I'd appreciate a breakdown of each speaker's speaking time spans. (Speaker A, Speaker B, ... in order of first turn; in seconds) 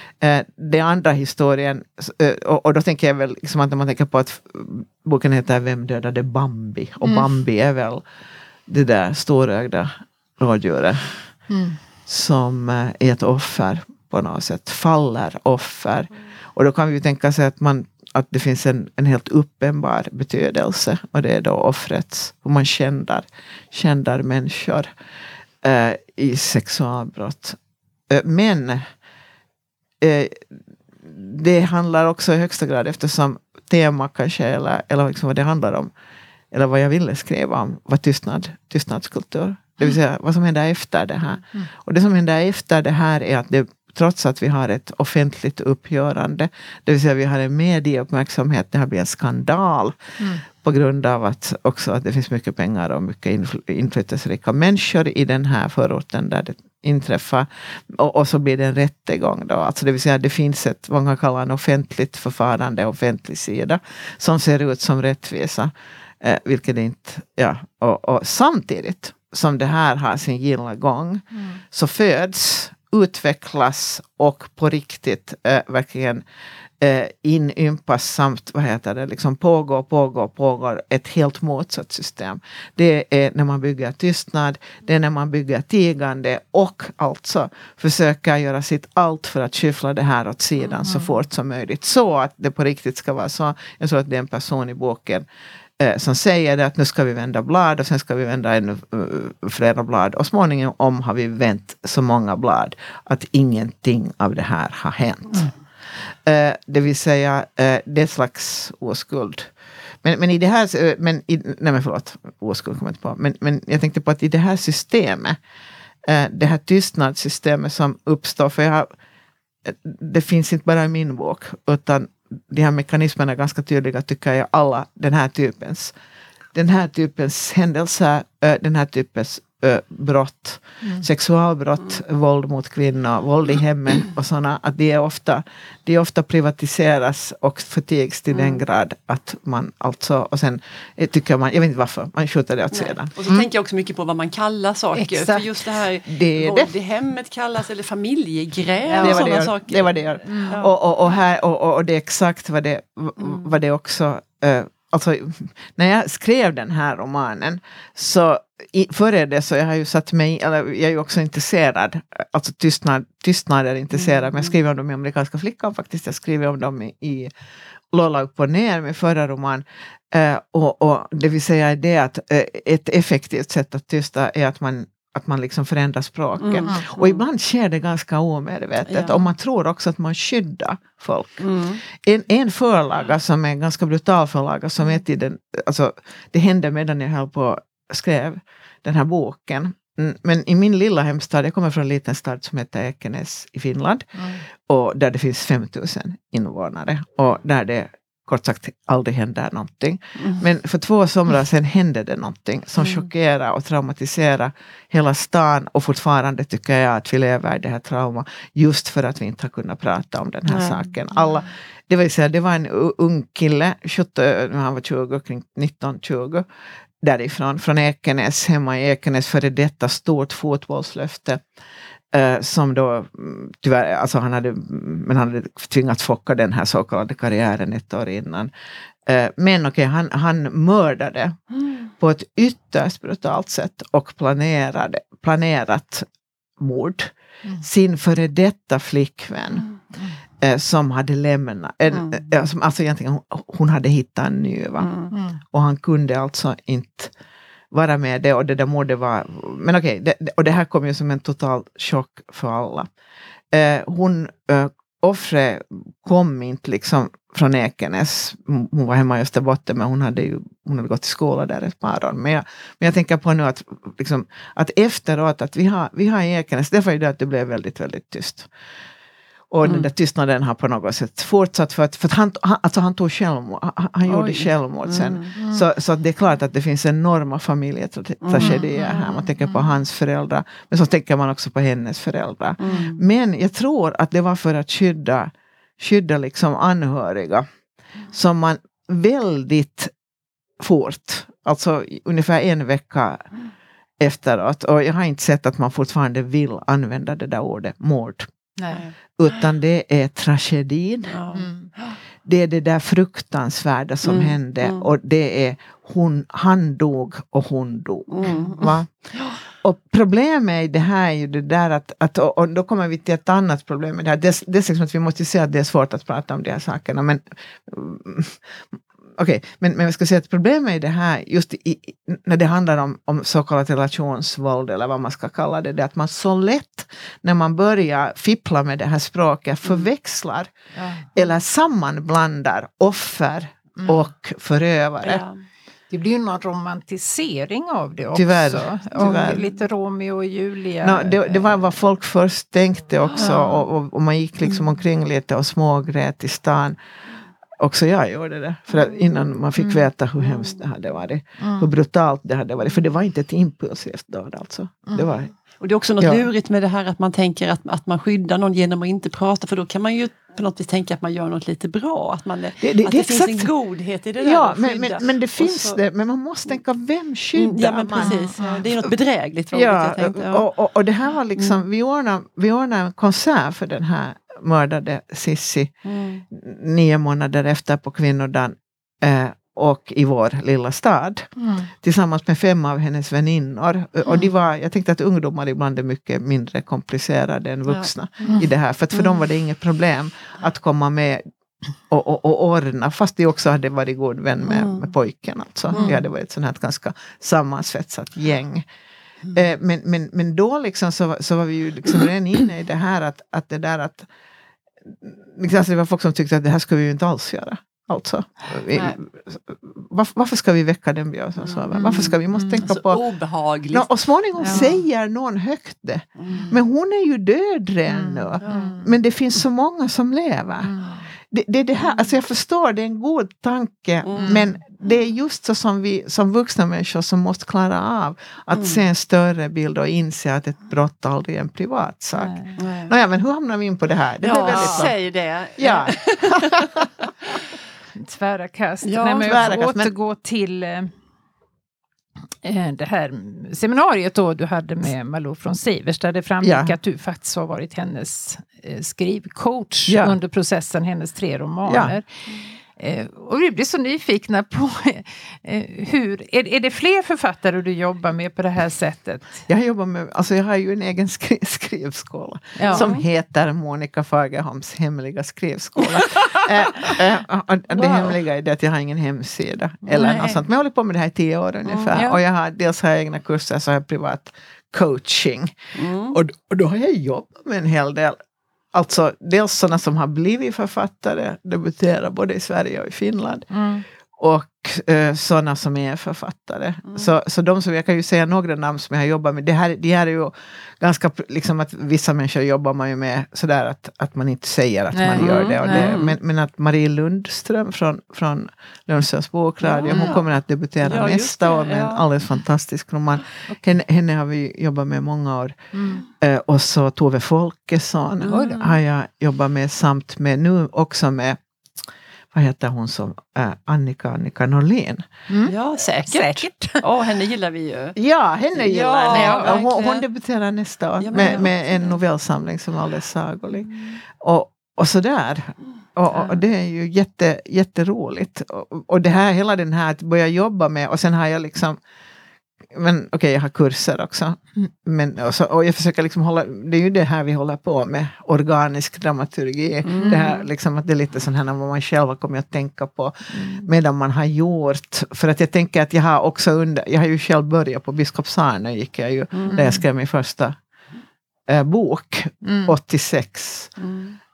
Speaker A: 0.2-8.0, 8.7-11.2, 12.1-24.9, 25.6-27.6, 28.1-28.9, 30.0-35.9, 36.5-50.0, 50.5-76.2, 76.8-95.2, 95.8-105.5, 106.2-109.5, 110.0-115.4, 116.0-118.9, 119.6-125.9, 126.5-143.5, 146.1-146.7, 149.0-167.3, 167.9-216.4, 217.0-221.4, 222.1-228.5, 229.1-231.4, 232.0-236.1, 236.6-239.7, 240.4-247.1, 247.7-252.9, 253.5-268.5, 269.5-287.5, 288.1-289.9, 290.6-293.2, 294.0-298.3, 299.2-301.2, 302.2-308.9, 309.5-318.6, 319.2-330.5, 331.1-335.2, 338.1-339.5, 340.8-346.8, 347.6-355.3, 356.0-356.2, 362.6-363.5, 364.2-368.3, 369.5-375.7, 376.3-391.2, 391.9-398.7, 399.3-404.1, 404.9-413.0, 413.7-420.8, 421.3-434.9, 435.6-436.9, 439.2-439.9, 446.4-446.8, 449.9-450.2, 451.7-452.0, 459.5-478.2, 478.7-483.5, 484.2-505.5, 506.2-511.4, 512.3-515.1, 518.0-531.8, 532.7-550.6, 551.5-553.7
Speaker B: 11.5-11.8, 50.2-50.4, 90.9-91.1, 144.9-145.5, 148.9-149.4, 150.2-150.6, 245.1-245.4, 275.4-275.6, 278.4-278.8, 301.3-301.7, 330.8-331.1, 335.9-341.6, 349.6-349.9, 351.4-351.7, 368.0-368.6, 381.4-381.7, 395.7-396.0, 412.3-412.6, 414.4-414.7, 417.9-418.9, 420.6-421.0, 424.2-424.5, 432.2-432.6, 434.4-434.9, 438.0-440.9, 442.4-452.0, 452.8-459.4, 462.6-462.9, 469.9-470.4, 471.9-472.2, 483.5-483.8, 494.9-495.9, 499.9-500.2, 505.7-506.0, 515.3-516.8, 519.1-519.6, 543.3-543.6, 549.5-549.8, 552.4-552.7
Speaker C: 138.3-138.6, 142.7-150.7, 176.4-177.2, 178.9-179.2, 181.4-181.8, 210.5-210.8, 241.9-242.2, 244.8-245.1, 274.1-275.3, 278.2-279.3, 282.6-283.0, 301.1-302.0, 304.0-304.9, 308.1-309.4, 335.0-335.4, 343.2-343.5, 355.6-365.8, 367.4-370.5, 371.4-371.6, 375.8-376.2, 387.7-388.4, 394.5-394.9, 395.7-396.0, 411.5-413.9, 414.5-414.7, 416.2-416.5, 418.4-418.8, 424.0-424.4, 428.5-428.8, 432.6-432.9, 434.2-437.3, 438.8-439.6, 462.7-463.0, 469.9-470.4, 471.7-472.0, 475.8-476.2, 495.2-496.2, 499.6-500.2, 500.8-502.1, 508.2-508.8, 515.5-518.0, 518.5-520.0, 521.0-522.0, 539.8-540.4, 549.3-549.7, 553.8-554.2